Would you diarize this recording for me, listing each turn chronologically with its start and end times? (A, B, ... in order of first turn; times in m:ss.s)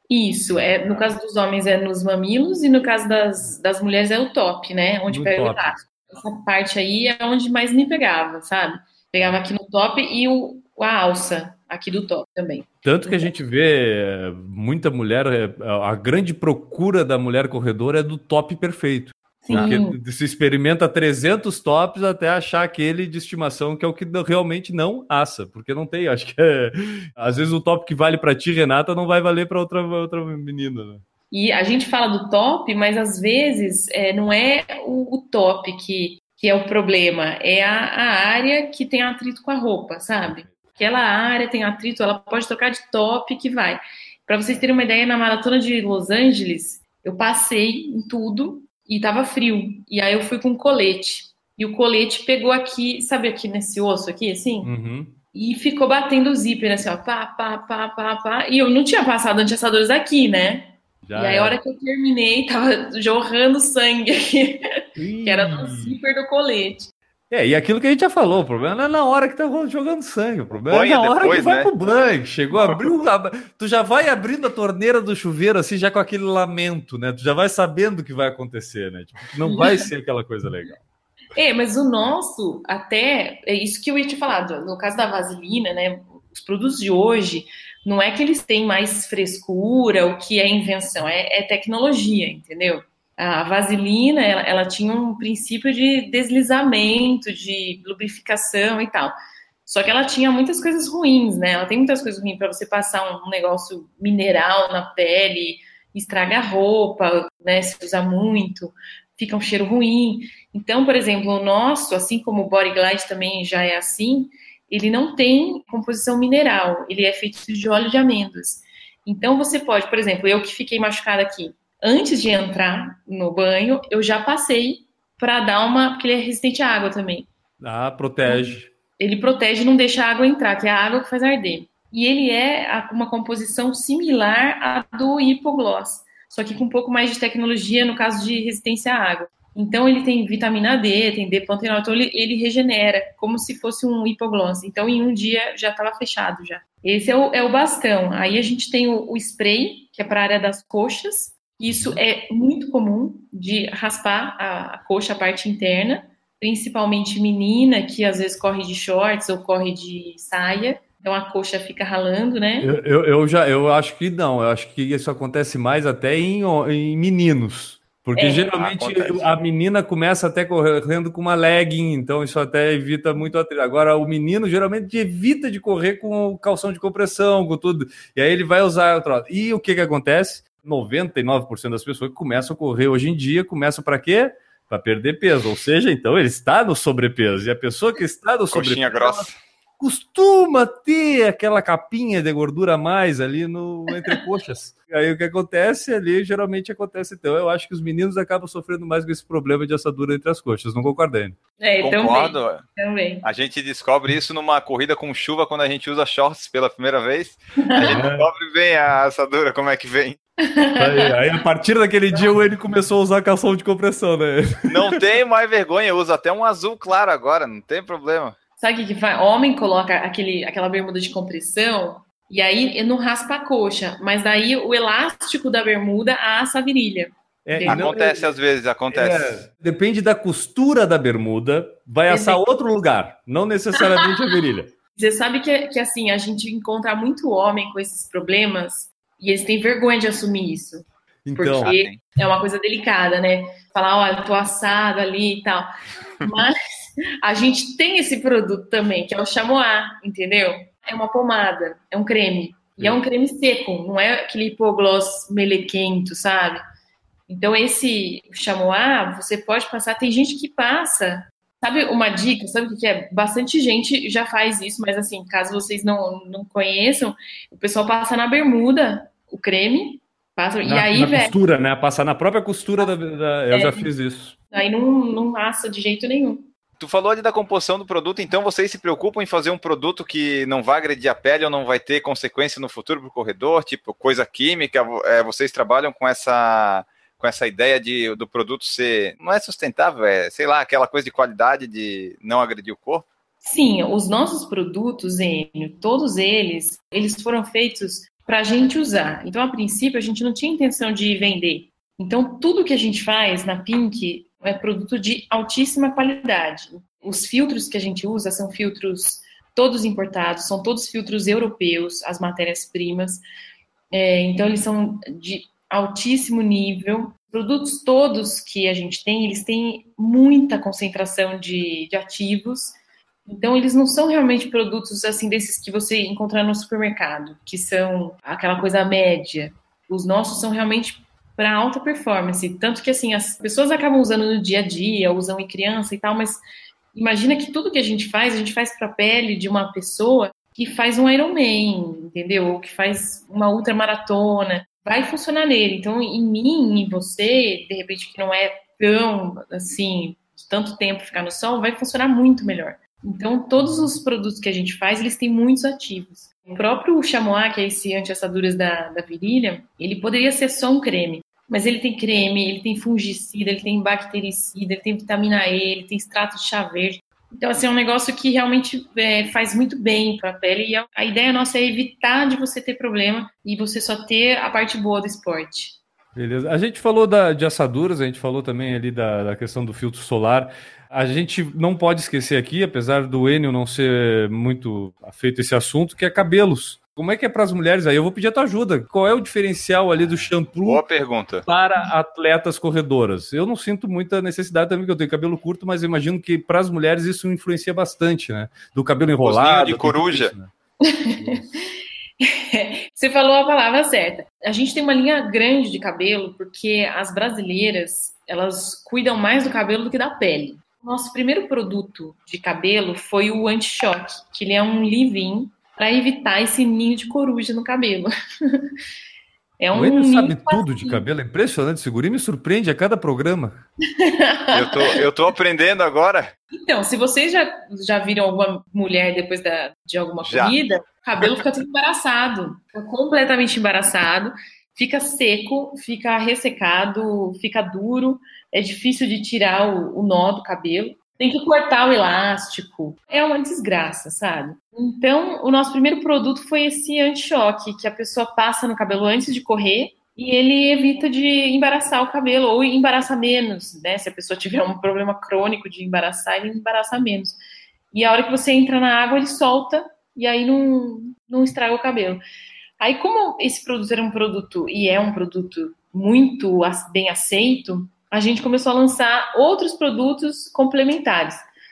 0:00.1-0:13.3 A
0:00.7-0:01.0 B
0:05.1-0:05.8 B
0:12.8-0:31.0 B
0:19.4-0:20.0 A
0:31.3-0:54.7 A
0:54.6-0:55.2 B
0:55.3-1:04.6 A
1:01.1-1:01.6 B
1:05.0-1:06.0 B
1:05.2-1:06.9 A
1:07.3-1:20.8 B
1:10.7-1:11.7 C
1:21.4-1:39.1 A
1:39.7-2:07.3 A
2:07.6-2:08.7 B
2:09.0-2:42.7 A
2:42.6-3:09.3 B
2:48.2-2:48.5 A
2:48.5-2:49.3 C
3:08.5-3:09.4 C
3:09.8-3:21.4 B
3:13.9-3:14.2 A
3:21.6-3:23.2 A
3:21.8-3:22.6 C
3:23.2-3:30.2 C
3:27.6-3:28.0 A
3:27.8-3:28.3 B
3:30.5-3:31.2 A
3:30.8-3:34.9 B
3:34.7-3:38.4 C
3:38.6-3:48.2 A
3:47.5-3:48.2 B
3:47.7-3:49.4 C
3:48.9-3:54.7 B
3:52.1-3:52.4 A
3:55.0-4:05.7 A
4:01.2-4:01.8 B
4:01.6-4:02.0 C
4:06.2-4:06.6 A
4:07.2-4:16.6 A
4:17.3-4:31.4 A
4:30.6-4:34.4 B
4:33.5-4:33.9 A
4:34.5-4:36.5 A
4:36.8-4:53.1 C
4:53.4-5:13.2 A
5:13.9-5:36.4 A
5:36.9-6:15.8 A
5:53.6-5:53.9 B
6:16.2-6:30.8 B
6:30.7-6:31.5 C
6:31.5-6:40.5 B
6:39.2-6:40.3 C
6:40.8-6:41.2 A
6:41.2-6:41.5 B
6:42.2-6:58.6 A
6:59.6-7:01.0 A
6:59.7-7:03.6 B
7:04.0-7:05.0 A
7:04.5-7:06.3 C
7:06.5-7:37.4 A
7:10.2-7:10.6 C
7:37.9-7:42.2 A
7:42.8-7:51.4 A